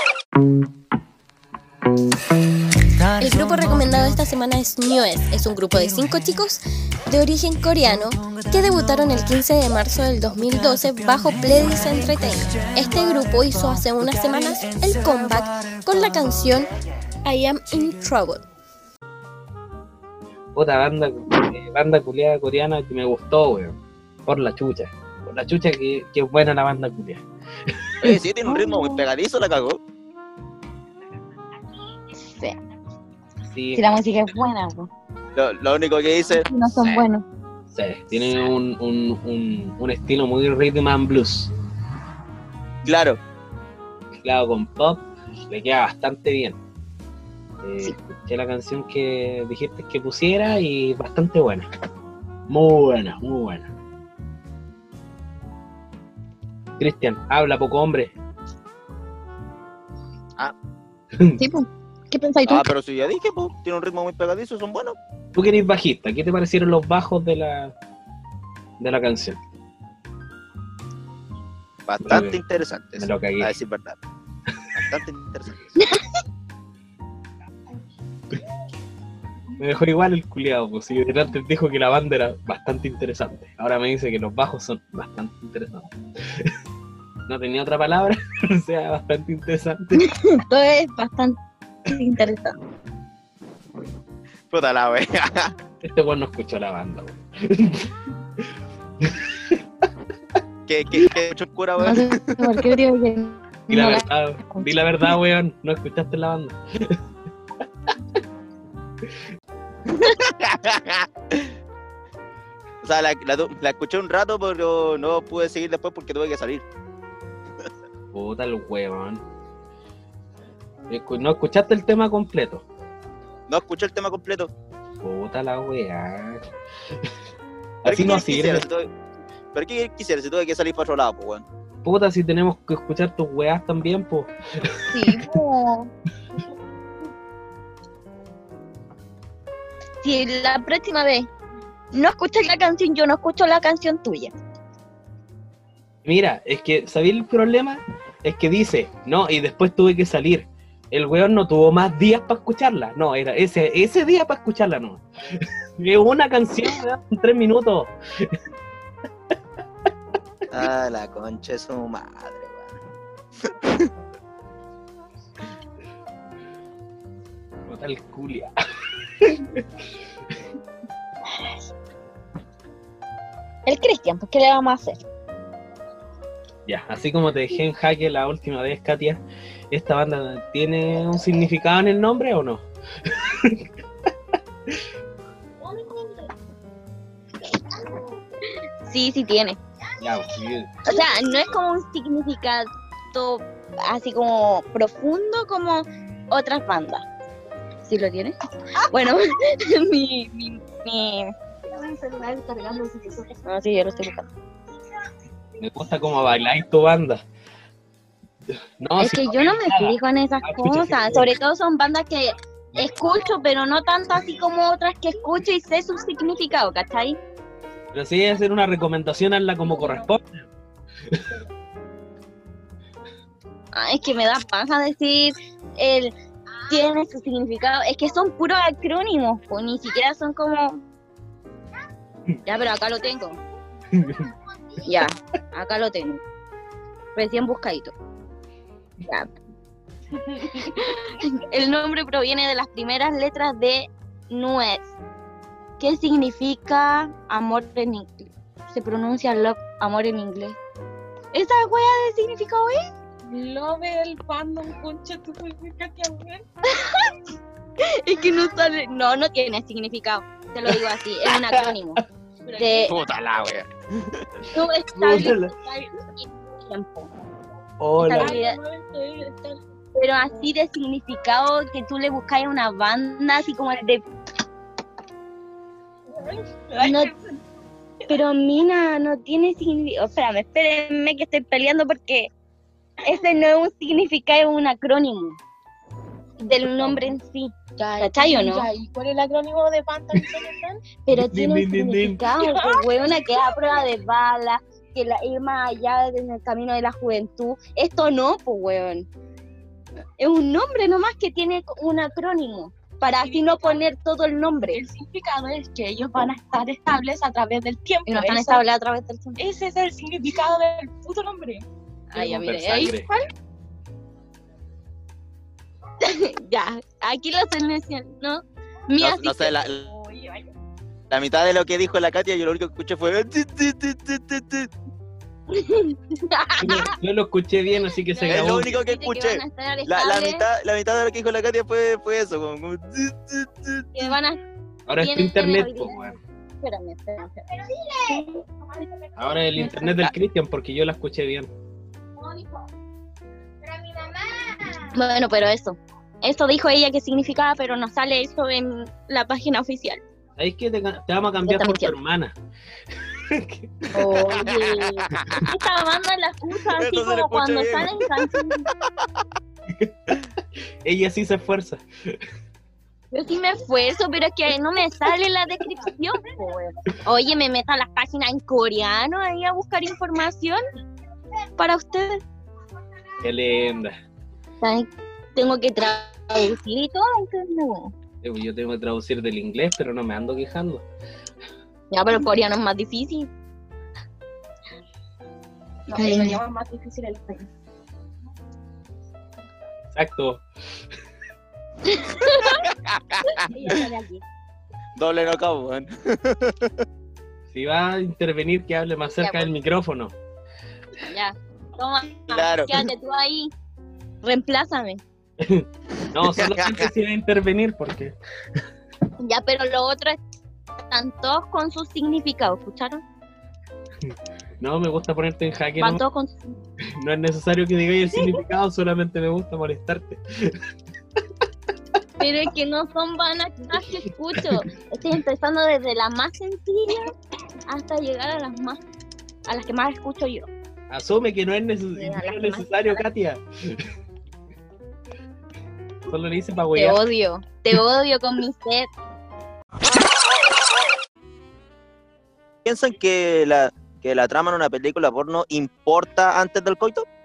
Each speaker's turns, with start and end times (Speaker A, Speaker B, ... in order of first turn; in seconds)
Speaker A: 3.2-16.7, 17.2-18.4
Speaker B: 20.6-28.1, 33.5-33.9, 37.7-41.5, 44.2-46.6, 47.6-51.6, 52.5-53.7, 56.8-58.1, 65.3-67.7, 68.8-69.4, 72.0-72.4, 73.0-73.5, 79.6-86.5, 87.3-90.1, 95.8-97.9, 99.0-99.6, 103.7-107.0, 118.1-119.2, 120.9-122.6, 125.0-126.4, 127.8-128.6, 131.8-135.1, 146.0-158.3, 167.7-168.5, 169.2-169.6, 176.7-179.2, 179.7-183.7, 190.0-190.8, 205.6-207.2, 208.8-211.3, 217.9-220.4, 233.9-234.3, 261.2-261.7, 264.9-265.5, 267.8-268.4, 291.1-292.3, 312.1-313.1, 326.6-328.7, 334.9-336.2, 339.2-341.5, 350.4-352.3, 353.0-353.9, 359.8-360.2, 360.8-362.2, 373.2-373.9, 378.2-380.8, 389.9-390.4, 397.5-400.1, 405.4-408.1, 414.6-416.0, 417.0-420.6, 430.9-433.9, 436.1-437.0
Speaker C: 28.0-29.8, 35.4-37.1, 42.8-43.2, 62.5-65.0, 71.9-74.0, 74.7-75.8, 94.5-95.5, 100.7-102.4, 110.0-111.5, 112.8-116.6, 123.5-124.5, 127.8-128.9, 129.5-131.4, 160.5-162.7, 262.9-264.2, 319.0-319.9, 321.1-324.7, 328.3-333.9, 354.3-355.5, 356.7-358.3, 392.6-393.4, 395.0-396.7, 402.3-402.7, 406.3-406.9, 442.6-447.0
Speaker D: 28.4-29.0, 32.2-32.5, 33.7-34.9, 36.3-37.2, 61.4-62.7, 90.0-92.5, 101.8-105.1, 134.9-135.9, 140.0-141.3, 141.9-144.3, 173.7-175.0, 188.8-189.6, 190.8-197.0, 197.8-204.3, 209.0-217.2, 223.7-226.2, 226.7-230.8, 232.4-233.4, 234.8-236.2, 237.1-237.9, 239.0-239.3, 240.3-244.9, 245.8-250.6, 251.3-257.1, 257.8-262.0, 262.6-262.9, 264.5-267.1, 268.0-268.6, 269.9-274.0, 276.8-277.1, 278.1-282.3, 283.0-285.4, 286.4-288.7, 290.9-299.1, 300.2-313.2, 316.0-320.4, 325.5-326.9, 328.1-330.4, 333.9-334.4, 335.0-335.9, 336.6-338.4, 339.6-339.9, 344.9-350.0, 351.4-351.9, 353.9-358.7, 363.1-370.6, 371.6-372.2, 374.6-377.9, 381.9-383.3, 385.9-387.4, 391.9-392.6, 393.3-394.2, 399.2-399.5, 401.1-403.5, 404.2-405.0, 409.2-410.2, 410.9-413.0, 415.8-416.6, 422.2-427.1, 427.7-428.8, 429.4-430.5, 432.0-433.0, 436.7-438.9
Speaker E: 262.5-262.9, 268.1-269.5, 276.7-277.0, 287.8-290.8, 292.4-292.9, 304.8-305.2, 307.3-308.6, 309.5-310.3, 385.9-386.4